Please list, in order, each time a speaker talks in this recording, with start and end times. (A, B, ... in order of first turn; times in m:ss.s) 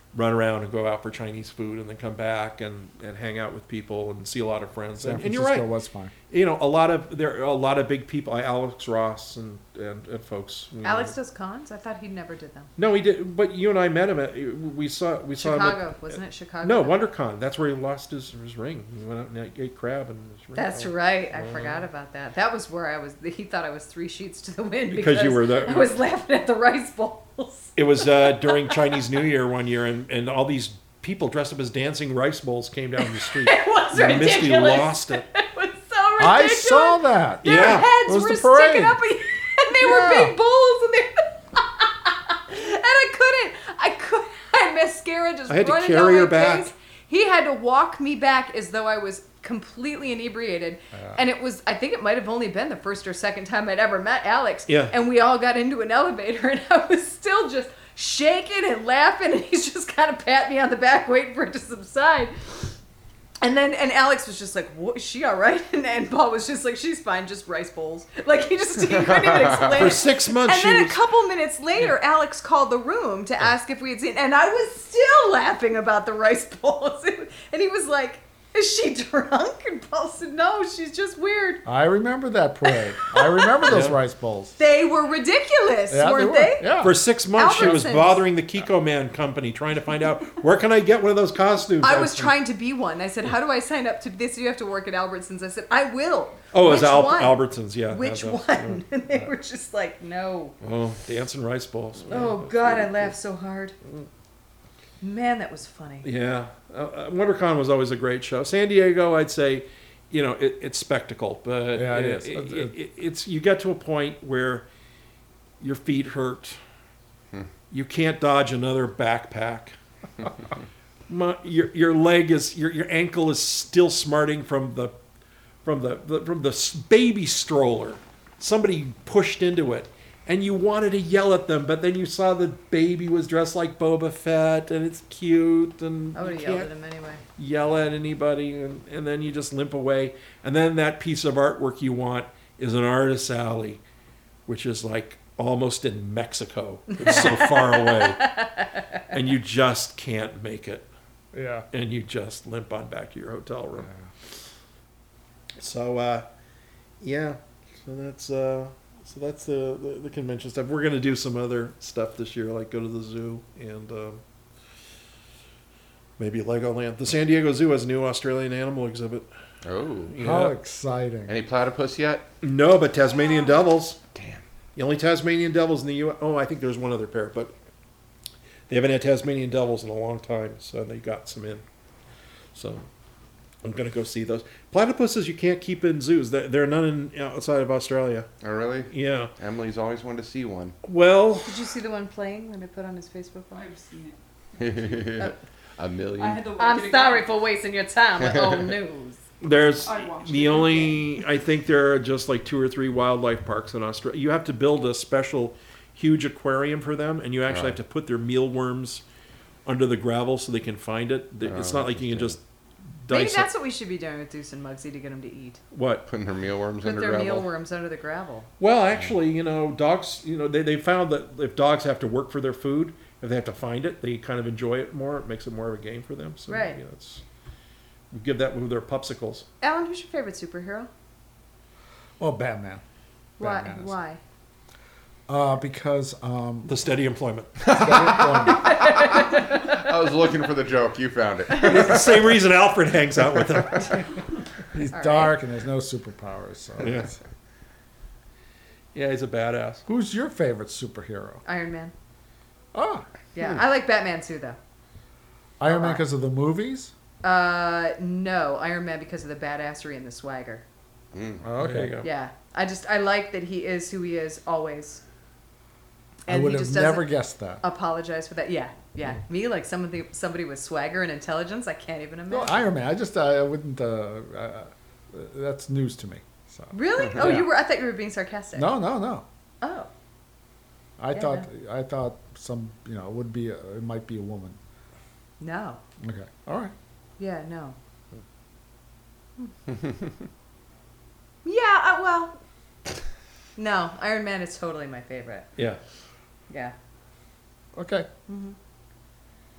0:00.1-0:05.7 A
0:05.0-0:06.1 B
0:06.3-0:11.2 A
0:10.8-0:12.7 C
0:12.8-0:21.8 A
0:15.4-0:17.0 C
0:20.6-0:29.0 C
0:24.9-0:25.9 A
0:27.8-0:35.2 A
0:33.0-1:02.7 C
0:36.2-0:39.0 B
0:37.4-0:37.9 A
0:39.8-0:40.4 B
0:45.5-0:46.7 A
0:54.7-0:54.9 A
1:03.4-1:21.6 C
1:09.0-1:10.0 D
1:09.7-1:11.0 A
1:21.6-1:24.6 B
1:22.6-1:23.7 C
1:23.7-1:24.0 A
1:24.6-1:26.7 C
1:25.9-1:27.0 B
1:26.8-1:32.3 A
1:27.4-1:28.2 C
1:31.8-1:40.6 C
1:36.5-1:39.3 A
1:40.6-1:42.9 A
1:42.1-1:43.8 C
1:45.0-1:46.1 C
1:46.0-1:54.7 A
1:51.7-1:52.7 B
1:55.6-1:56.6 A
1:57.7-1:59.8 A
2:01.1-2:05.0 A
2:05.6-2:16.7 A
2:16.2-2:17.2 C
2:17.4-2:23.8 A
2:24.5-2:28.3 A
2:26.9-2:29.0 C
2:29.1-2:30.9 A
2:31.3-2:31.7 B
2:31.7-2:33.9 A
2:35.6-2:36.3 A
2:37.0-2:44.2 A
2:46.2-2:49.3 A
2:49.6-2:50.2 D
2:50.1-2:50.6 A
2:50.2-2:51.3 B
2:51.3-2:52.3 D
2:52.4-2:54.0 A
2:54.2-2:54.4 D
2:54.8-2:57.5 A
2:58.7-3:01.6 A
3:02.5-3:02.9 A
3:03.6-3:08.3 A
3:08.4-3:10.8 D
3:08.9-3:09.3 A
3:10.8-3:11.6 A
3:11.5-3:13.7 C
3:13.5-3:14.2 E
3:14.6-3:16.5 D
3:16.2-3:17.4 E
3:16.5-3:19.2 C
3:18.3-3:18.6 D
3:19.4-3:29.0 A
3:19.8-3:21.0 E
3:27.5-3:27.8 D
3:29.7-3:32.4 A
3:31.4-3:32.4 D
3:33.0-3:33.5 A
3:33.1-3:35.6 C
3:35.7-3:36.1 A
3:36.1-3:37.5 D
3:36.8-3:38.5 C
3:38.6-3:47.2 A
3:46.5-3:46.8 C
3:48.1-3:49.5 A
3:49.6-3:50.9 C
3:52.2-3:52.8 B
3:53.4-3:54.2 C
3:53.4-3:54.0 B
3:55.3-3:56.7 B
3:56.7-3:57.7 A
3:57.6-3:59.2 B
3:57.6-4:02.4 D
3:58.5-3:59.6 C
4:01.5-4:04.0 A
4:04.7-4:07.2 B
4:04.9-4:05.3 C
4:06.8-4:07.1 A
4:08.9-4:09.8 A
4:09.9-4:11.4 B
4:11.4-4:11.9 C
4:12.7-4:13.1 B
4:13.4-4:14.6 C
4:15.6-4:16.9 B
4:15.7-4:16.0 C
4:17.2-4:20.6 C
4:21.1-4:21.5 D
4:21.4-4:22.0 B
4:21.6-4:22.1 A
4:22.0-4:25.0 C
4:26.3-4:27.1 C
4:26.3-4:27.6 B
4:27.6-4:32.7 C
4:32.3-4:37.5 B
4:36.7-4:38.7 C
4:38.6-4:39.3 B
4:39.6-4:39.9 C
4:41.0-4:44.6 B
4:41.1-4:41.5 C
4:45.4-4:45.8 C
4:46.0-4:46.7 B
4:47.2-4:47.8 C
4:51.4-4:52.4 C
4:53.6-4:55.5 C
4:56.5-4:56.8 C
4:57.8-4:58.1 B
4:58.3-4:58.6 C